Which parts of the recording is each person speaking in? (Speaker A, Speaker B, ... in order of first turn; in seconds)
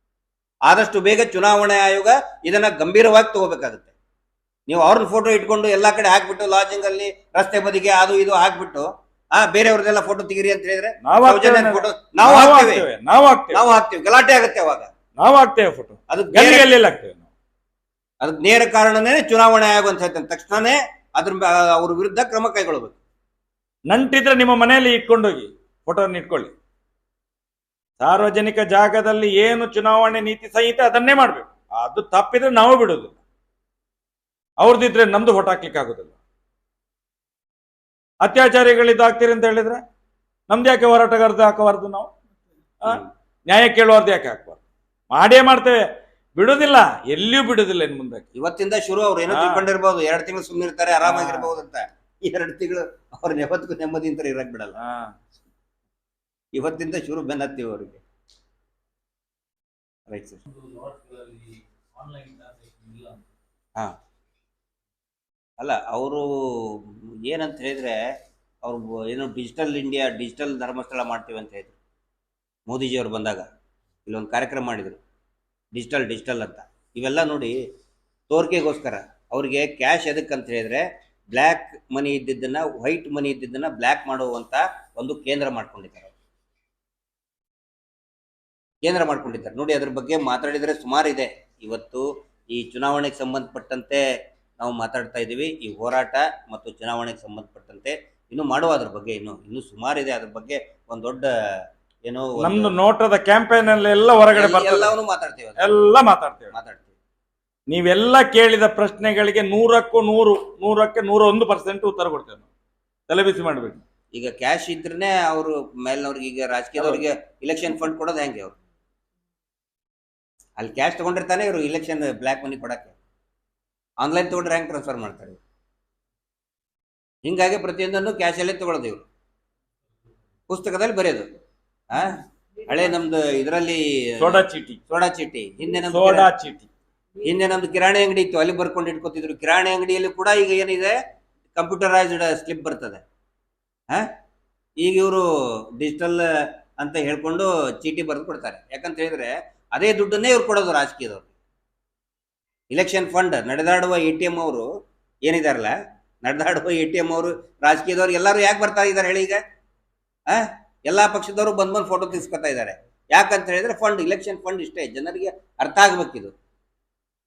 Speaker A: 0.7-3.9, 4.7-12.9, 13.5-14.9, 16.1-16.7, 18.2-23.0, 48.4-54.8, 56.5-58.0, 60.1-60.4, 65.6-68.1, 68.6-71.8, 72.7-73.5, 74.1-75.0, 75.8-77.6, 78.3-86.1, 88.8-94.0, 94.6-102.8, 104.3-105.8, 106.5-106.9, 114.1-118.6, 120.6-123.0, 124.0-125.4, 127.2-129.1, 130.5-131.3, 131.9-136.3, 137.2-141.0, 141.6-143.0, 144.8-146.3, 146.8-151.3, 152.7-154.7, 155.2-159.4, 160.3-166.3
Speaker B: 11.0-13.6, 15.2-17.3, 23.9-26.5, 28.0-33.2, 34.6-36.1, 38.2-39.8, 40.5-42.1, 42.8-44.6, 45.1-45.8, 46.4-48.3, 49.3-49.7, 51.0-51.5, 54.8-55.1, 60.5-61.3, 62.0-63.2, 102.4-104.9, 105.6-106.5, 107.7-112.5, 113.1-113.8, 116.8-117.0, 134.2-134.8, 135.8-136.7